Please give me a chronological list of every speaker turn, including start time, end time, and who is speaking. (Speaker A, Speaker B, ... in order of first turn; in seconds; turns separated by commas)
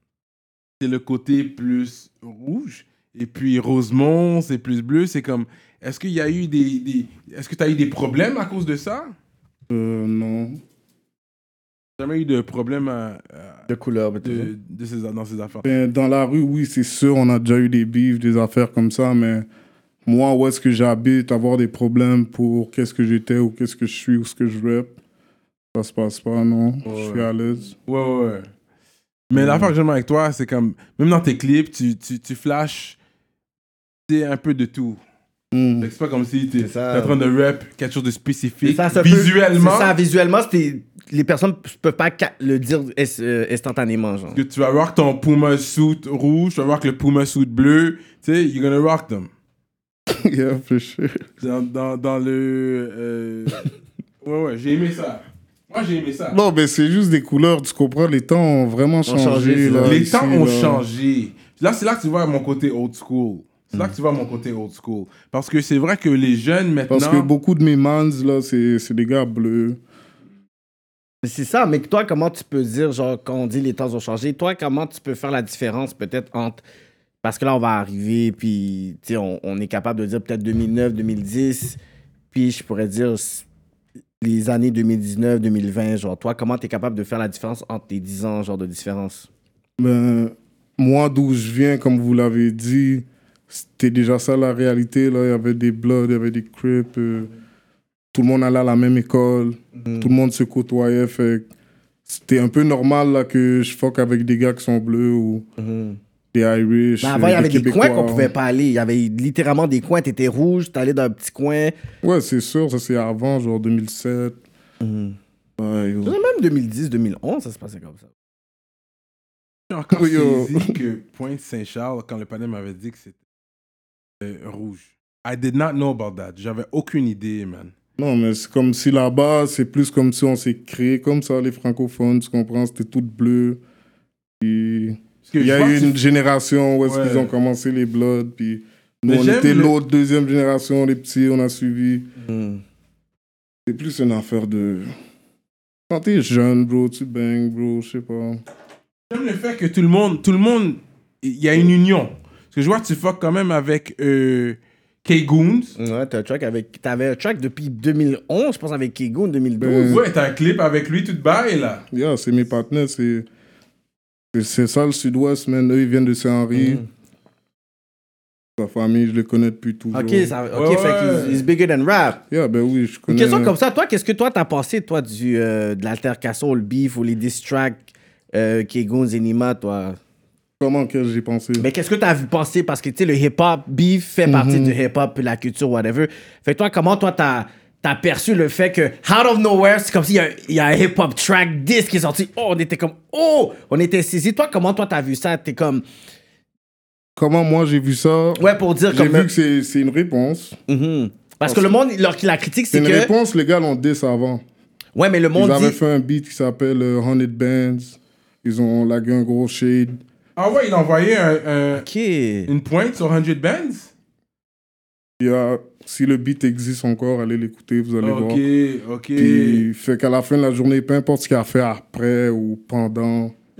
Speaker A: 0.8-9.1, Speaker B: 9.7-10.6, Speaker A: 12.0-13.6, Speaker C: 13.7-14.5, Speaker A: 14.2-15.7, Speaker B: 15.6-19.4, Speaker B: 20.1-24.9, Speaker B: 25.7-27.7, Speaker A: 26.9-27.3, Speaker A: 27.9-28.5, Speaker A: 29.3-33.0, Speaker B: 29.4-29.7, Speaker A: 34.1-35.0, Speaker B: 35.5-35.9, Speaker A: 35.8-39.9, Speaker C: 36.6-37.1, Speaker C: 38.6-44.4, Speaker A: 44.3-49.3, Speaker B: 50.1-51.2, Speaker A: 51.4-53.7, Speaker A: 54.2-56.4, Speaker B: 56.3-60.8, Speaker C: 59.0-60.0, Speaker A: 59.8-67.3, Speaker B: 66.9-69.8, Speaker C: 71.2-76.6, Speaker C: 77.2-81.8, Speaker C: 82.3-83.4, Speaker C: 84.2-89.3, Speaker B: 89.8-97.3, Speaker B: 98.1-101.5, Speaker C: 99.8-100.1, Speaker B: 102.1-105.5, Speaker C: 105.6-106.0, Speaker B: 106.3-108.3, Speaker C: 107.0-111.7, Speaker B: 112.0-114.4, Speaker C: 114.8-115.2, Speaker B: 115.6-116.2, Speaker C: 116.0-118.0, Speaker A: 119.7-123.1, Speaker B: 119.9-120.8, Speaker A: 124.2-127.7, Speaker B: 128.0-133.6, Speaker B: 134.4-142.1, Speaker A: 135.3-135.9, Speaker A: 136.8-137.3, Speaker A: 139.1-139.7, Speaker C: 142.2-142.6, Speaker B: 143.7-144.9, Speaker B: 145.9-148.4, Speaker A: 149.1-155.7, Speaker C: 155.8-160.0, Speaker B: 159.6-160.0, Speaker A: 159.7-161.8, Speaker B: 161.9-163.2, Speaker B: 164.3-166.8, Speaker C: 166.5-166.8, Speaker B: 168.6-170.3, Speaker C: 169.9-172.2, Speaker A: 170.5-171.4, Speaker B: 172.3-173.5, Speaker C: 173.1-177.8, Speaker C: 178.3-180.0, Speaker B: 180.6-181.7, Speaker C: 181.6-195.8, Speaker B: 184.3-184.8, Speaker B: 197.2-200.6, Speaker C: 198.4-199.3, Speaker C: 200.7-203.1, Speaker B: 201.4-201.7, Speaker B: 202.7-204.4, Speaker C: 204.9-205.8, Speaker B: 205.3-210.0, Speaker A: 210.3-211.8, Speaker C: 211.8-212.5, Speaker A: 212.5-213.9, Speaker B: 215.2-218.4, Speaker A: 218.0-219.6, Speaker B: 219.2-223.3